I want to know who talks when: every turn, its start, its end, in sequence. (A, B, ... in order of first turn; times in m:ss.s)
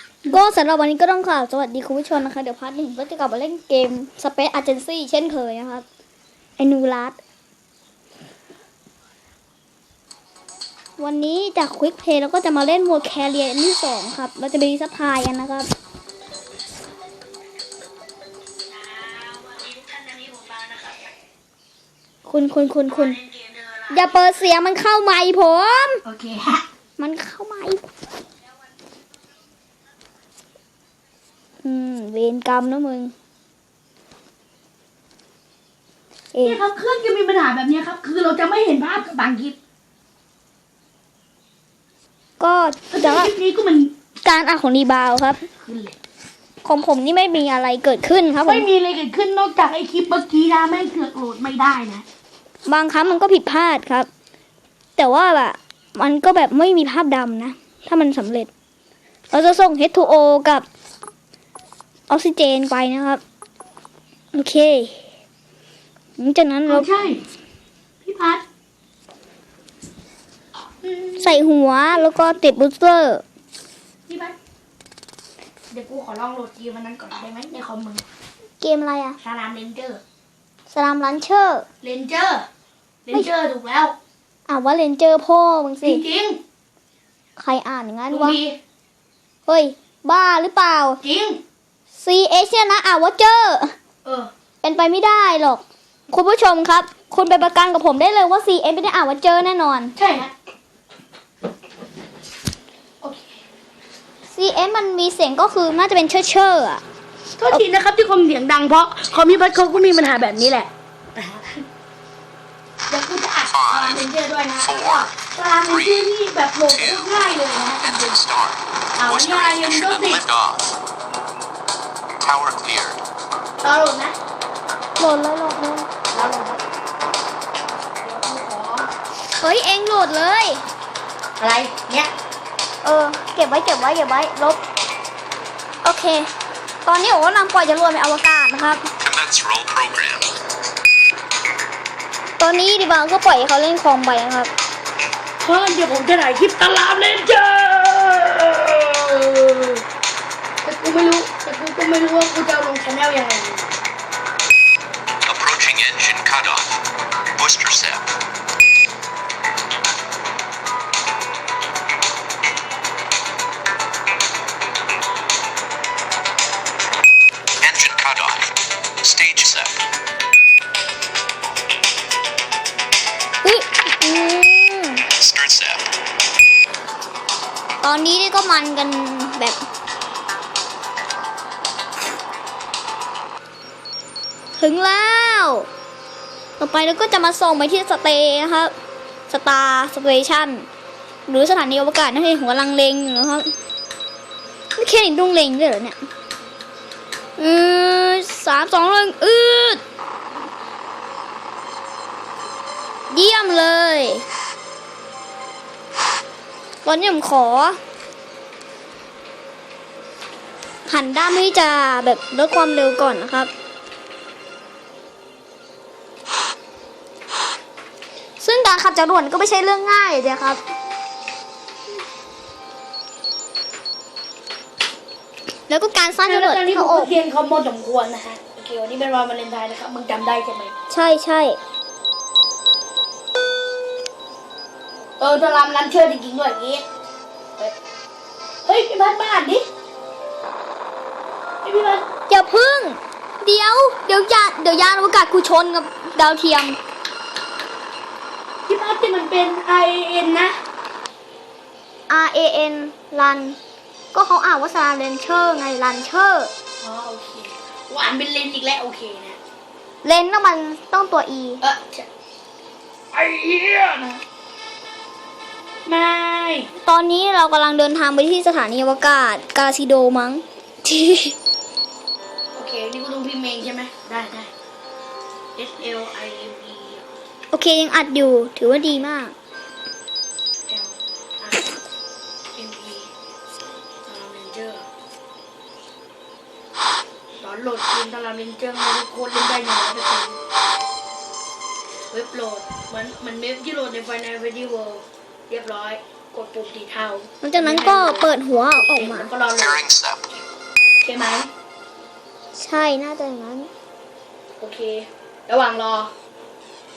0:00.3-0:05.9 A
0:06.6-0:07.2 A
0:11.0-0:15.7 A
0:18.7-0:21.1 B
0:22.3-0:23.2 A
0:22.9-0:24.0 B
0:23.9-0:26.0 A
0:26.1-0:26.6 B
0:27.0-0:27.9 A
0:31.6-0:33.1 A
0:36.3-0:36.6 A
0:36.4-0:39.6 B
0:42.4-0:43.3 A
0:42.9-0:44.0 B
0:44.2-0:45.4 A
0:45.5-0:46.0 B
0:46.6-0:48.7 A
0:48.5-0:52.0 B
0:52.7-0:54.1 A
0:55.0-0:58.5 A
0:59.3-1:00.7 A
1:02.1-1:03.2 A
1:04.3-1:05.0 A
1:06.2-1:06.9 A
1:06.7-1:07.2 B
1:08.0-1:08.4 B
1:10.8-1:11.4 B
1:11.2-1:13.2 A
1:14.1-1:14.4 B
1:15.7-1:18.0 B
1:18.6-1:19.2 A
1:19.2-1:20.0 B
1:20.7-1:21.7 A
1:21.8-1:22.5 B
1:23.1-1:24.0 B
1:24.5-1:26.0 A
1:25.8-1:26.4 B
1:27.4-1:28.4 A
1:28.1-1:28.6 B
1:29.5-1:31.0 A
1:31.0-1:31.4 B
1:32.0-1:33.8 A
1:34.0-1:34.3 B
1:34.6-1:40.0 A
1:40.0-1:40.3 B
1:43.0-1:43.4 B
1:44.3-1:46.8 A
1:47.4-1:51.6 B
1:49.1-1:50.6 C
1:52.9-1:58.2 B
1:53.4-1:54.0 C
1:54.6-1:57.2 C
1:57.8-2:00.8 C
1:59.0-2:00.2 B
2:02.2-2:03.0 C
2:03.6-2:04.2 B
2:05.0-2:05.9 A
2:06.1-2:06.6 B
2:08.0-2:08.9 B
2:09.4-2:10.6 A
2:11.4-2:12.1 B
2:12.8-2:14.6 A
2:15.8-2:16.3 A
2:16.8-2:18.9 A
2:19.0-2:20.3 C
2:22.4-2:24.5 A
2:25.4-2:29.8 B
2:30.6-2:33.7 B
2:35.2-2:36.8 C
2:37.4-2:38.1 C
2:47.6-2:49.8 C
2:53.4-2:55.0 A
2:55.1-2:55.9 C
2:57.8-2:59.6 A
3:04.6-3:05.7 A
3:06.6-3:08.7 A
3:09.3-3:10.7 A
3:11.3-3:13.5 A
3:14.8-3:16.0 A
3:17.4-3:19.8 A
3:23.1-3:24.2 A
3:26.8-3:27.8 A
3:30.9-3:33.5 A
3:38.4-3:40.6 A
3:45.7-3:47.2 A
3:46.2-3:50.7 B
3:50.9-3:51.6 A
3:55.2-3:56.8 B
3:58.6-3:59.7 B
4:01.6-4:02.1 B
4:02.3-4:06.8 A
4:08.7-4:10.6 B
4:12.1-4:13.6 A
4:14.1-4:16.5 A
4:16.8-4:19.4 B
4:20.0-4:21.6 A
4:21.6-4:22.1 B
4:23.1-4:24.2 B
4:25.9-4:26.7 B
4:26.8-4:31.4 A
4:32.5-4:34.5 B
4:35.6-4:37.0 B
4:37.5-4:39.3 A
4:40.7-4:41.8 B
4:42.6-4:43.1 B
4:44.1-4:44.8 B
4:47.4-4:50.4 B
4:52.1-4:59.9 B
4:57.4-4:59.3 A
4:59.5-5:00.4 C
5:01.0-5:01.5 B
5:02.6-5:03.7 A
5:04.6-5:06.1 B